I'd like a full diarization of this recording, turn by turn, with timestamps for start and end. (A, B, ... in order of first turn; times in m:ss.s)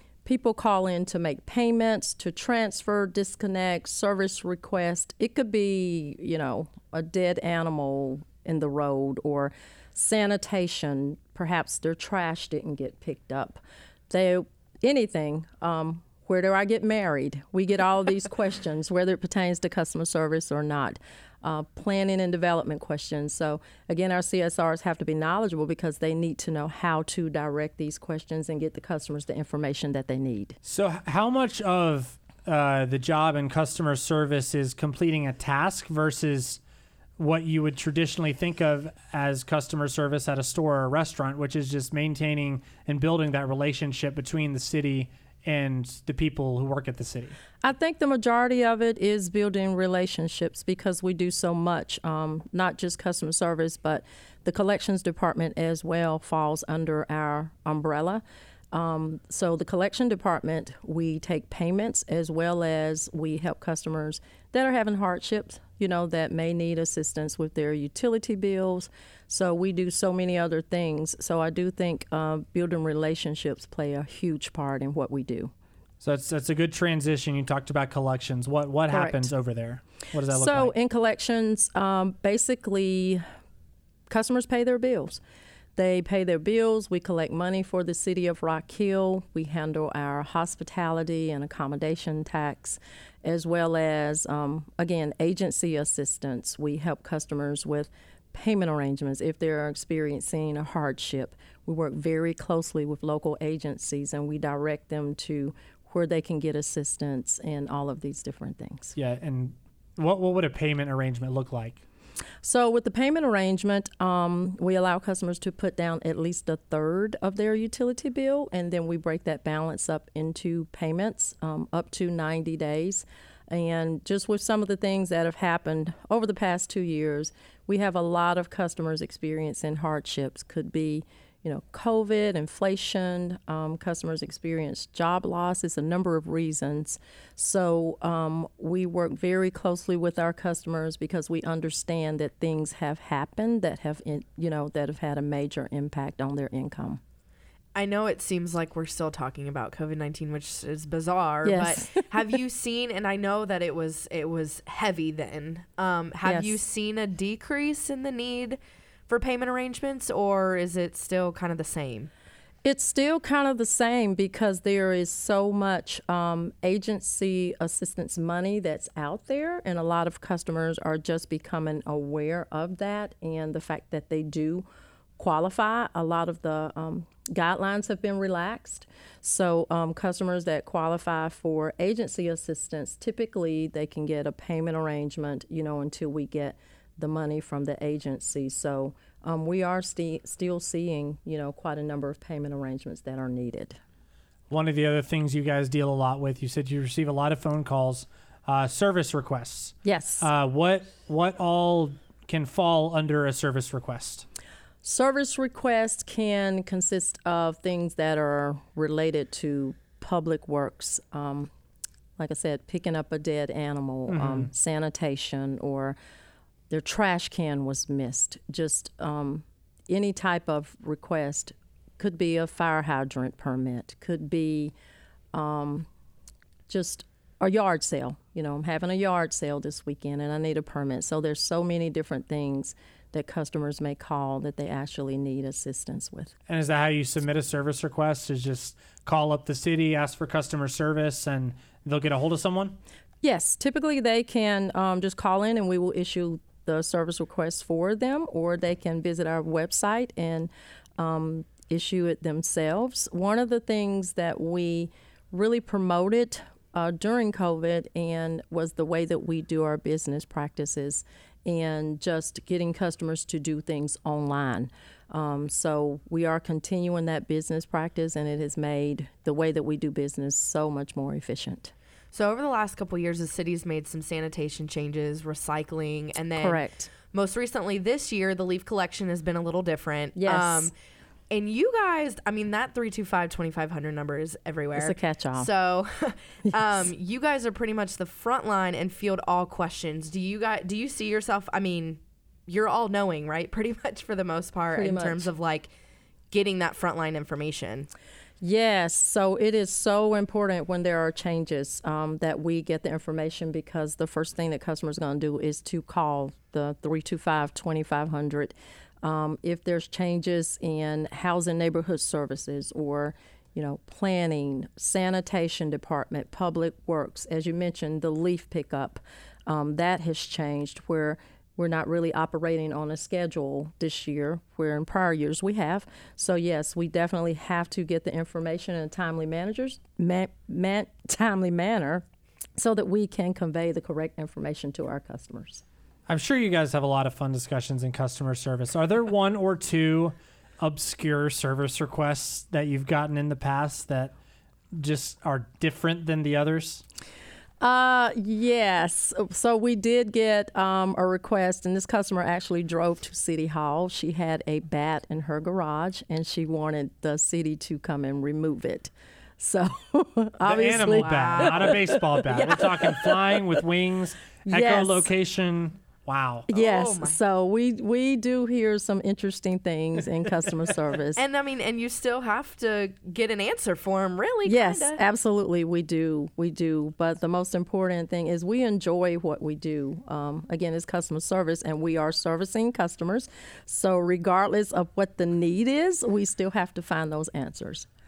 0:00.2-0:30.6 A
0:30.6-0:36.6 B
0:37.2-0:47.4 B
0:47.6-1:15.5 A
1:16.0-1:20.7 B
1:18.9-1:19.3 A
1:20.3-1:23.2 A
1:24.1-1:25.2 A
1:25.8-1:49.0 A
1:49.0-1:51.8 B
1:52.4-2:27.0 A
2:27.8-2:42.1 C
2:31.4-2:32.1 A
2:36.2-2:36.5 A
2:42.6-2:54.6 A
2:55.2-3:13.8 A
3:14.5-3:24.3 B
3:19.8-3:20.3 A
3:24.8-3:31.5 A
3:32.2-3:36.0 A
3:34.1-3:34.5 B
3:36.7-3:44.7 A
3:45.3-3:45.9 A
3:46.7-3:56.3 A
3:56.5-4:02.8 B
4:03.2-4:31.7 A
4:32.1-4:40.7 C
4:36.4-4:36.9 A
4:40.2-4:40.7 A
4:41.3-4:55.7 C
4:44.8-4:45.5 A
4:54.7-4:55.3 A
4:56.3-4:57.9 C
4:58.4-5:32.0 A
5:32.6-5:35.6 A
5:36.1-5:44.2 B
5:44.7-5:46.8 B
5:47.6-6:03.1 A
6:00.4-6:06.5 B
6:01.0-6:01.8 C
6:04.5-6:05.1 A
6:06.5-6:11.2 A
6:06.5-6:07.2 C
6:11.2-6:15.0 C
6:14.5-6:27.9 A